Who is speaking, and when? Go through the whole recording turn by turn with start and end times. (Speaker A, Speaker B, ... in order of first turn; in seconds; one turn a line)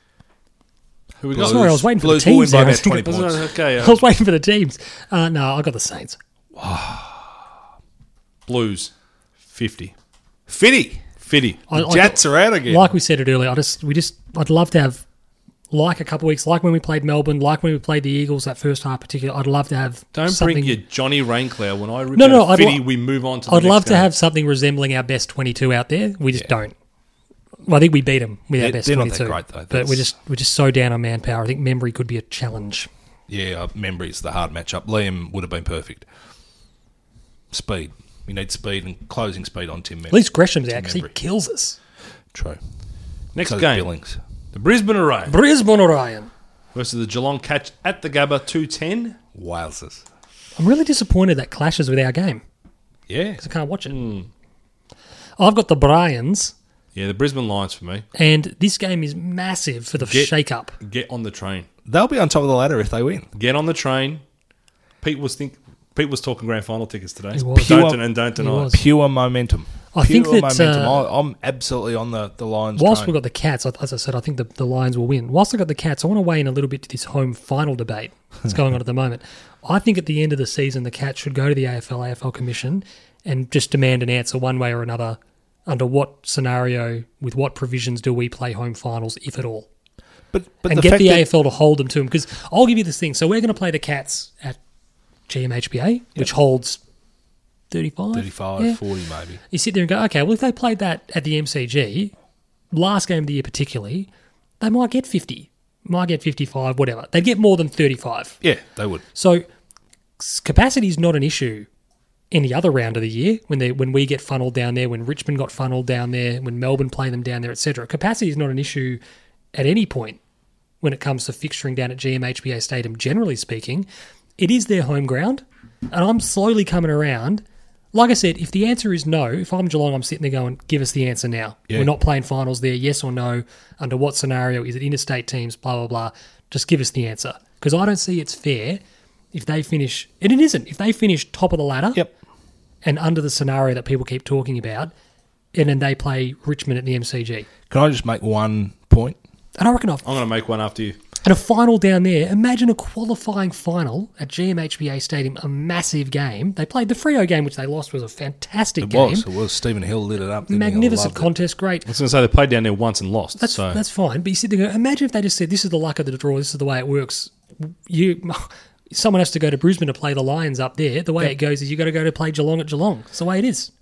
Speaker A: 1.2-1.8
Speaker B: 1.3-3.5
Speaker C: 1.4-3.1
Speaker A: 2.6-4.0
Speaker C: 3.6-6.2
Speaker B: 6.5-7.4
Speaker A: 8.4-8.9
Speaker A: 9.4-9.9
Speaker B: 10.5-11.0
Speaker A: 11.2-11.6
Speaker C: 11.7-15.0
Speaker B: 11.7-12.9
Speaker C: 15.7-20.8
Speaker A: 20.1-24.1
Speaker C: 22.1-22.8
Speaker C: 23.5-26.7
Speaker C: 27.6-32.9
Speaker B: 28.6-30.1
Speaker B: 33.3-36.0
Speaker B: 37.5-41.1
Speaker C: 40.1-41.8
Speaker B: 42.3-42.6
Speaker A: 43.3-43.9
Speaker B: 43.4-44.2
Speaker A: 44.5-45.3
Speaker C: 45.3-46.3
Speaker A: 46.7-49.2
Speaker B: 49.3-50.0
Speaker C: 50.5-52.4
Speaker B: 53.1-53.4
Speaker C: 53.4-54.0
Speaker A: 53.9-54.3
Speaker C: 55.4-56.5
Speaker A: 56.9-58.0
Speaker C: 58.1-60.8
Speaker A: 60.0-61.7
Speaker B: 61.9-63.3
Speaker A: 63.3-64.2
Speaker A: 65.0-68.8
Speaker C: 67.3-68.8
Speaker B: 67.5-68.0
Speaker B: 68.6-73.1
Speaker C: 69.9-71.1
Speaker C: 72.8-89.7
Speaker B: 90.3-91.3
Speaker C: 90.7-94.6
Speaker C: 95.3-96.8
Speaker C: 97.7-98.8
Speaker B: 98.1-99.4
Speaker C: 99.5-102.1
Speaker C: 102.7-104.1
Speaker C: 104.6-108.4
Speaker B: 108.4-109.0
Speaker C: 109.1-109.4
Speaker C: 110.2-111.7
Speaker C: 112.3-119.0
Speaker C: 119.5-120.2
Speaker C: 120.8-123.9
Speaker C: 124.4-138.8
Speaker C: 139.3-142.0
Speaker C: 142.8-144.9
Speaker C: 145.5-147.5
Speaker B: 147.7-149.2
Speaker C: 149.6-150.1
Speaker A: 150.0-151.0
Speaker C: 151.2-159.2
Speaker B: 158.8-161.3
Speaker C: 160.5-161.9
Speaker A: 161.8-163.8
Speaker C: 163.4-173.7